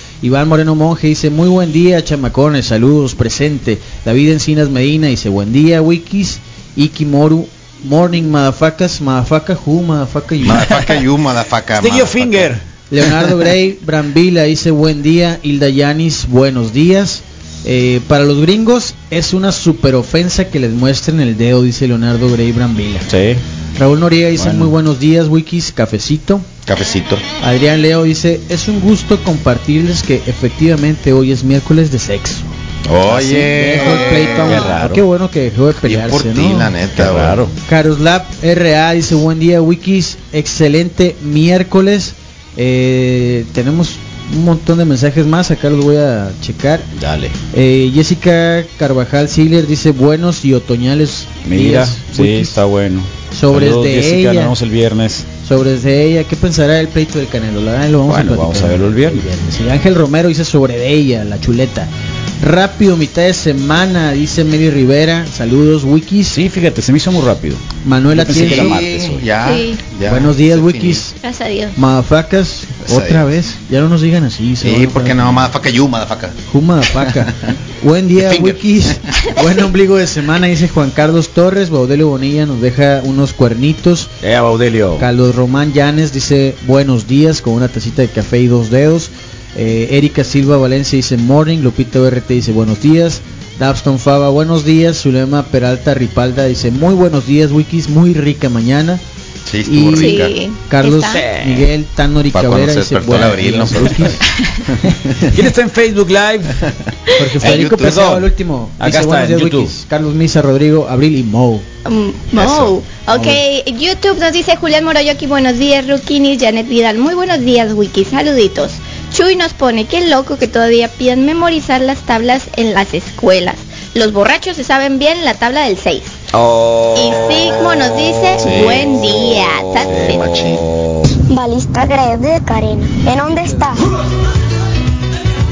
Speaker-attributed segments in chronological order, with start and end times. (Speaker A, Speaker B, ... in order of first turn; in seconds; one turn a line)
Speaker A: 0.2-10.7
Speaker B: 10.4-12.5
Speaker C: 11.7-12.6
Speaker A: 12.9-23.1
Speaker C: 23.1-23.4
Speaker A: 23.8-26.5
Speaker C: 24.4-24.7
Speaker B: 26.6-27.2
Speaker A: 27.4-32.5
Speaker B: 32.9-34.7
Speaker A: 33.1-36.7
Speaker C: 34.4-35.0
Speaker B: 35.8-37.4
Speaker C: 37.0-37.5
Speaker A: 37.7-46.9
Speaker C: 47.0-47.4
Speaker A: 47.5-52.6
Speaker C: 51.5-55.3
Speaker A: 53.3-54.5
Speaker A: 55.4-61.9
Speaker C: 58.0-59.2
Speaker A: 62.4-66.4
Speaker C: 66.3-69.2
Speaker A: 67.8-68.8
Speaker B: 68.3-71.1
Speaker D: 69.4-69.8
Speaker A: 70.0-71.1
Speaker D: 71.2-71.8
Speaker A: 71.8-75.4
Speaker B: 72.8-73.3
Speaker B: 74.6-76.4
Speaker A: 76.5-84.1
Speaker B: 78.2-78.6
Speaker C: 84.2-85.1
Speaker A: 85.0-99.0
Speaker B: 99.5-100.3
Speaker A: 99.6-104.2
Speaker D: 99.9-101.2
Speaker C: 101.0-101.7
Speaker B: 102.3-104.2
Speaker C: 105.3-106.6
Speaker A: 107.2-111.6
Speaker B: 107.4-108.2
Speaker C: 107.6-108.3
Speaker C: 108.8-109.7
Speaker D: 111.8-126.2
Speaker B: 112.3-113.1
Speaker C: 126.3-127.5
Speaker D: 126.9-130.2
Speaker B: 128.4-130.6
Speaker C: 128.4-131.1
Speaker E: 131.3-133.8